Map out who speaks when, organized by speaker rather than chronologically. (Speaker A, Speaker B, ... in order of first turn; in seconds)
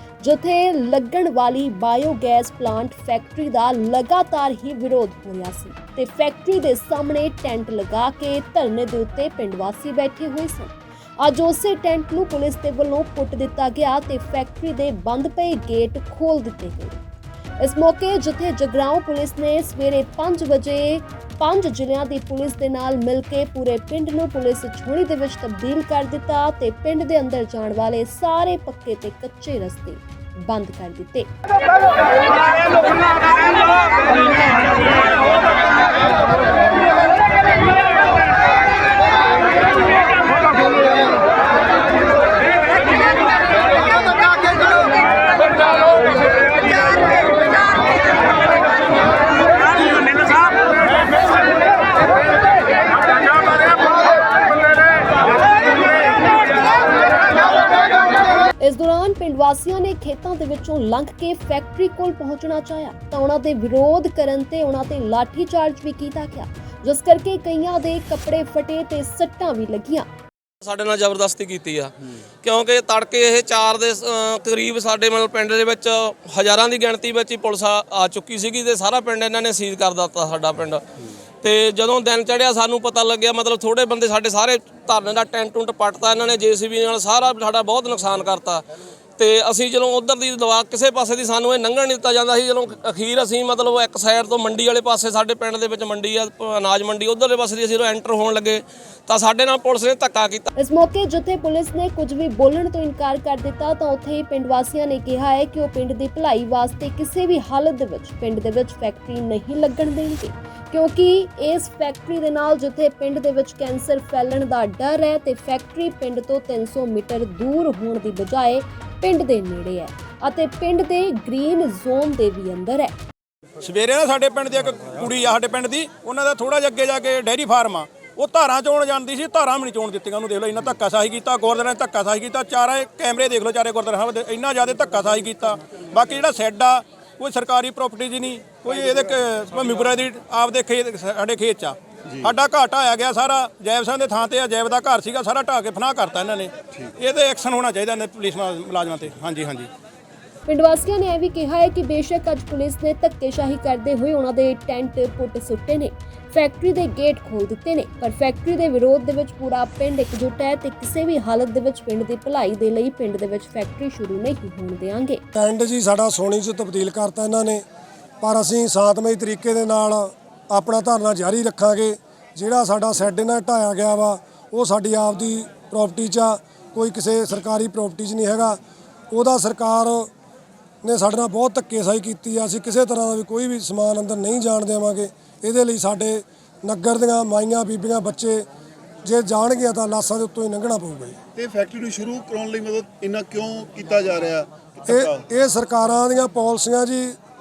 Speaker A: 0.2-17.0, 17.6-31.3, 58.6-70.1, 100.6-122.9, 150.5-165.2
Speaker B: 70.6-71.9, 72.4-80.8, 81.4-88.6, 89.2-100.5
Speaker C: 123.6-149.7
Speaker D: 142.1-142.3, 191.3-195.2
Speaker E: 165.3-167.6, 168.2-178.6, 179.1-180.1, 180.8-188.4, 189.0-191.2, 194.9-197.1